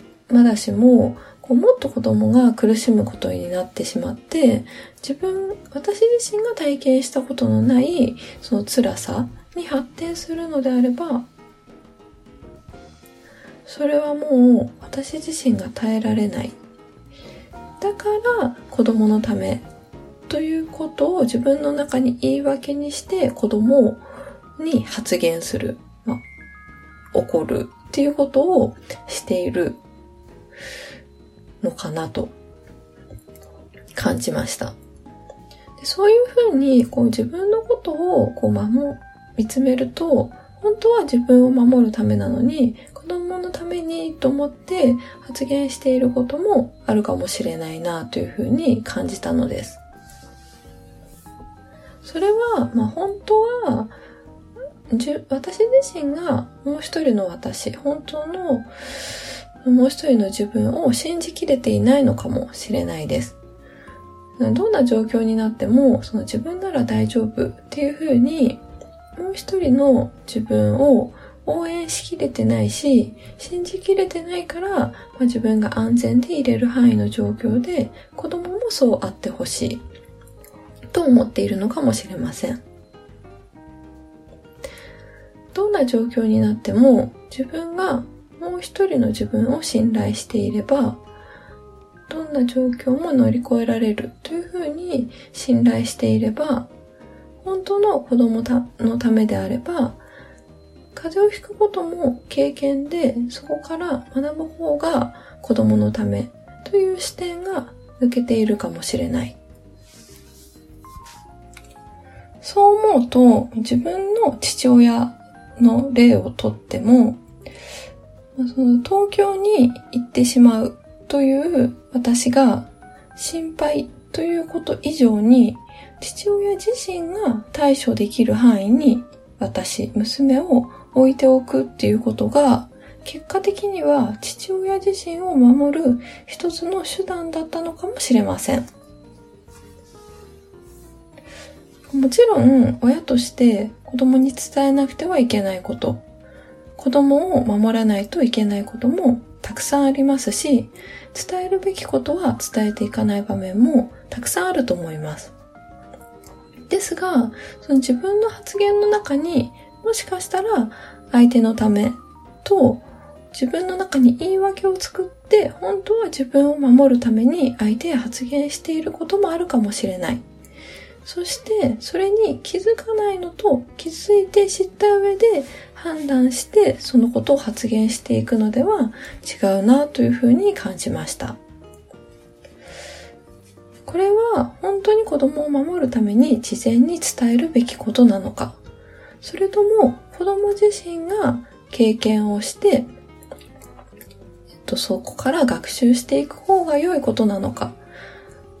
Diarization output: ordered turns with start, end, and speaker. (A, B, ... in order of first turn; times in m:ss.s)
0:00.3-0:11.3 A
0:13.6-0:16.6 A
0:17.8-0:19.6 A
0:20.3-0:24.0 A
0:24.6-0:26.2 A
0:27.1-0:29.8 A
0:31.6-0:32.3 A
0:33.9-0:34.8 A
0:35.8-0:49.8 A
0:52.0-0:53.9 A
0:54.9-0:58.7 A
0:59.6-1:03.4 A
1:04.4-1:08.6 A
1:09.2-1:19.8 A
1:20.9-1:22.6 A
1:25.5-1:31.0 A
1:32.1-1:36.7 A
1:37.4-1:40.0 A
1:40.9-1:49.4 A
1:52.4-1:57.2 A
1:58.4-2:18.7 A
2:21.9-2:26.0 A
2:26.8-2:35.3 A
2:36.7-2:50.2 A
2:51.0-3:01.4 A
3:03.8-3:08.6 A
3:09.2-3:12.9 A
3:14.6-3:17.8 A